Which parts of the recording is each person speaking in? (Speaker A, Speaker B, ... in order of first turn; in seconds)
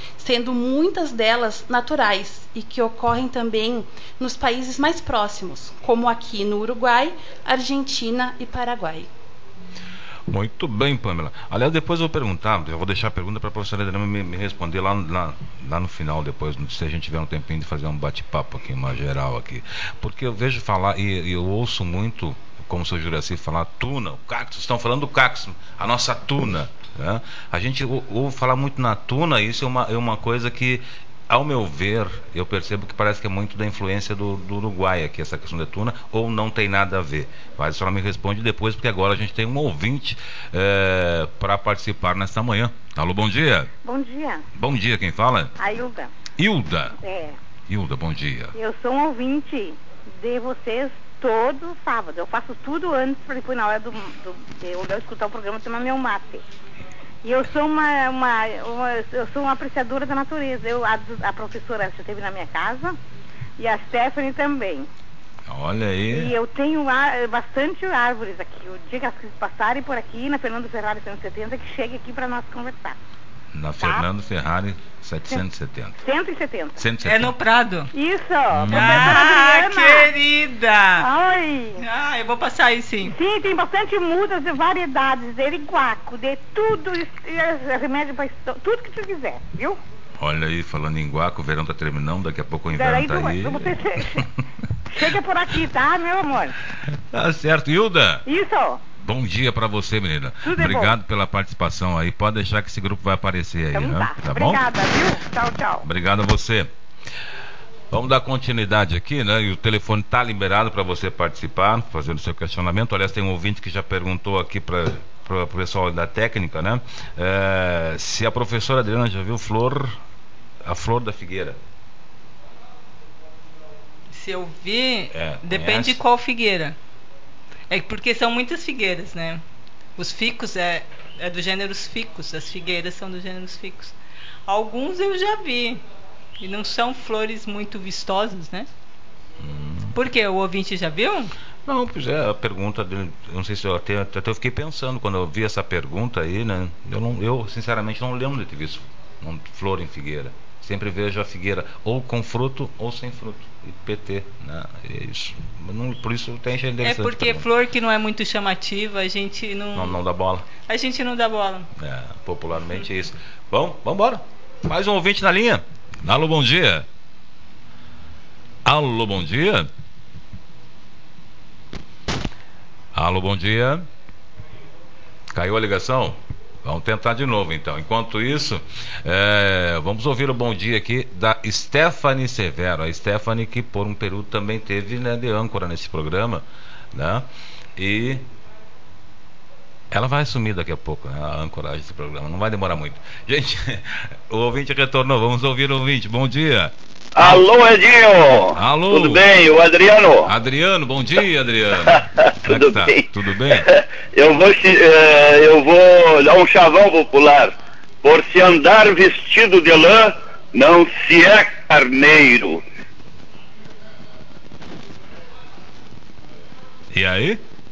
Speaker A: 0.2-9.1
Speaker B: 10.3-43.7, 44.5-45.5, 46.4-47.0, 47.7-48.5, 65.5-66.3, 73.5-76.0, 76.8-77.3, 78.5-79.2, 90.2-94.3, 96.8-98.2, 99.0-104.7, 105.8-106.7, 107.9-120.0, 120.6-121.6, 125.1-126.0, 139.4-140.0, 141.7-157.5, 159.8-160.5, 161.8-166.9, 168.7-169.7, 172.9-173.8, 175.3-188.2, 189.9-197.4, 198.5-199.3, 200.2-203.7, 216.9-217.4
Speaker C: 43.8-44.5, 45.6-46.1, 46.9-47.4, 48.5-56.4, 57.2-63.0, 63.6-64.9, 66.1-73.0, 73.8-74.1, 76.0-76.8, 77.9-80.1, 81.0-81.8, 83.0-89.8, 92.8-94.3, 94.9-96.5, 98.3-98.8, 100.4-101.0, 103.7-105.9
Speaker D: 77.0-77.9, 78.7-81.1, 81.8-83.2, 124.1-126.8, 127.7-129.4, 130.0-133.9, 134.5-135.8, 136.4-138.7, 139.9-141.3, 156.8-160.0, 160.7-161.7
Speaker E: 197.2-200.2, 202.5-202.9, 204.2-212.6